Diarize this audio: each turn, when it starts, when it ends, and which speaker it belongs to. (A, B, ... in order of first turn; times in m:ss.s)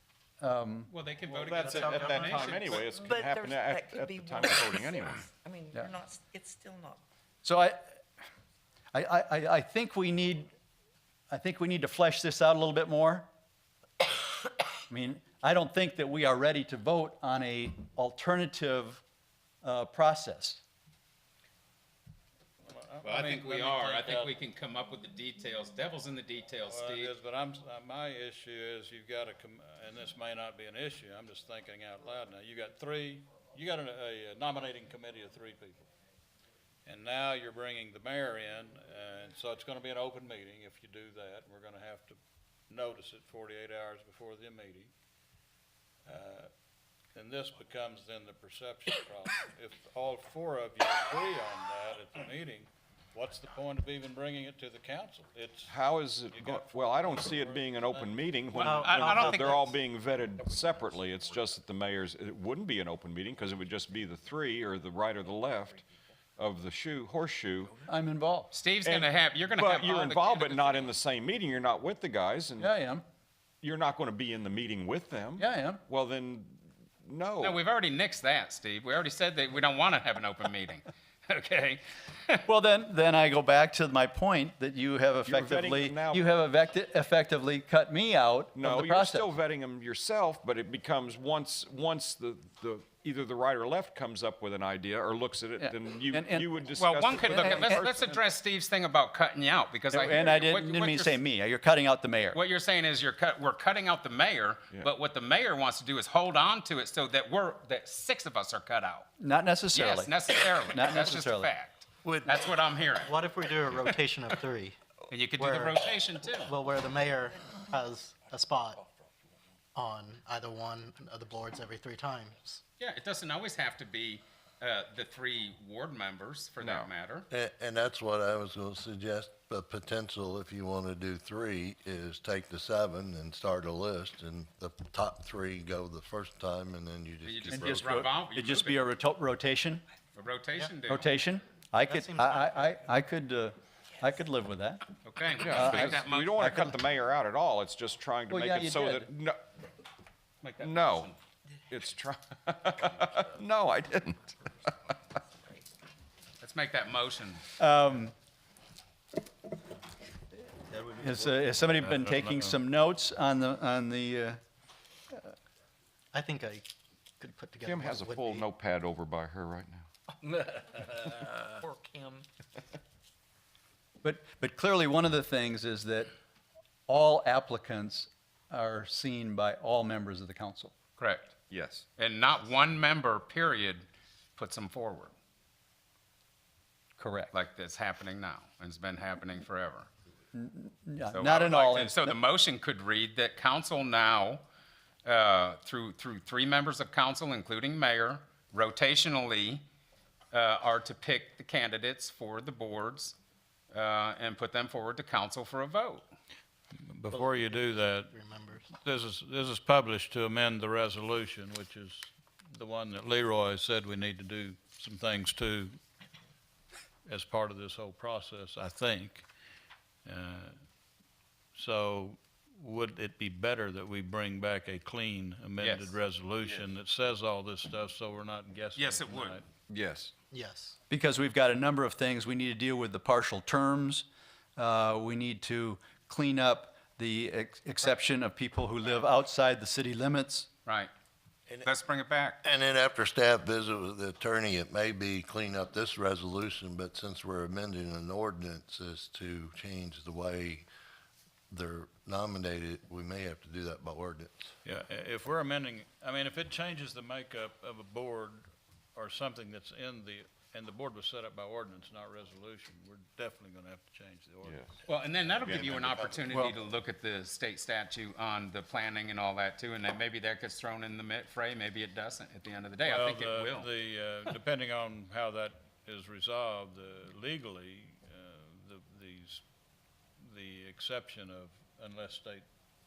0:00.4-0:00.9 A
0:00.9-0:02.6 B
0:01.3-0:05.3 C
0:01.6-0:02.8 D
0:02.9-0:07.0 E
0:07.4-0:07.8 A
0:08.9-0:10.5 A
0:11.3-0:13.3 A
0:14.9-0:19.0 A
0:19.6-0:20.6 A
0:22.6-0:24.3 F
0:23.0-0:27.1 B
0:26.7-0:35.9 F
0:36.8-0:42.2 F
0:42.7-0:44.9 F
0:46.0-0:46.5 F
0:47.1-0:55.7 F
0:55.6-1:05.8 C
0:56.4-0:57.6 F
0:58.5-0:59.7 B
0:58.6-0:59.6 D
1:06.4-1:07.8 C
1:07.8-1:08.5 A
1:08.5-1:10.9 B
1:08.8-1:12.7 C
1:12.6-1:13.0 A
1:13.6-1:17.6 C
1:15.4-1:15.8 A
1:17.4-1:22.4 B
1:22.4-1:29.3 A
1:25.2-1:26.3 C
1:28.6-1:38.2 C
1:35.6-1:36.5 A
1:36.8-1:41.2 B
1:37.3-1:37.8 A
1:39.9-1:42.4 A
1:42.3-1:49.0 B
1:49.2-1:51.5 A
1:49.7-1:53.9 B
1:53.0-1:54.8 D
1:55.1-1:56.5 B
1:55.4-1:55.8 D
1:56.4-1:58.8 D
1:59.7-2:02.6 D
2:02.8-2:07.3 B
2:06.6-2:06.9 C
2:07.3-2:18.0 G
2:17.2-2:18.9 B
2:17.5-2:19.8 A
2:20.1-2:21.1 B
2:20.9-2:24.8 A
2:21.9-2:22.5 D
2:25.0-2:26.4 B
2:25.4-2:29.4 C
2:25.5-2:26.8 A
2:28.3-2:29.1 A
2:30.4-2:31.2 B
2:30.6-2:31.1 C
2:31.7-2:35.2 C
2:36.4-2:37.4 B
2:37.6-2:38.1 A
2:40.7-2:41.1 D
2:41.0-2:44.4 A
2:41.8-2:42.6 F
2:46.1-2:46.7 D
2:47.2-2:48.4 D
2:47.6-2:49.9 C
2:51.6-2:52.2 E
2:54.0-2:56.1 A
2:56.9-3:00.7 A
3:01.0-3:01.3 B
3:01.5-3:01.8 C
3:02.0-3:05.1 B
3:07.0-3:07.3 A
3:07.3-3:09.9 B
3:10.3-3:12.2 A
3:11.1-3:14.4 B
3:15.0-3:19.6 B
3:20.3-3:23.2 B
3:23.7-3:26.1 B
3:26.9-3:28.1 F
3:27.1-3:28.7 D
3:28.8-3:35.8 F
3:37.1-3:39.3 F
3:40.0-3:40.6 F
3:41.5-3:49.4 F
3:45.6-3:46.0 B
3:48.8-3:49.4 B
3:49.7-3:50.1 C
3:50.3-3:50.8 D
3:50.9-3:54.0 A
3:54.6-4:00.5 A
4:00.6-4:00.9 B
4:01.6-4:02.4 B
4:02.4-4:10.7 G
4:11.5-4:14.5 G
4:14.6-4:24.5 F
4:24.4-4:24.8 C
4:24.8-4:33.7 B
4:25.4-4:26.0 C
4:32.9-4:39.4 F
4:40.2-4:42.4 F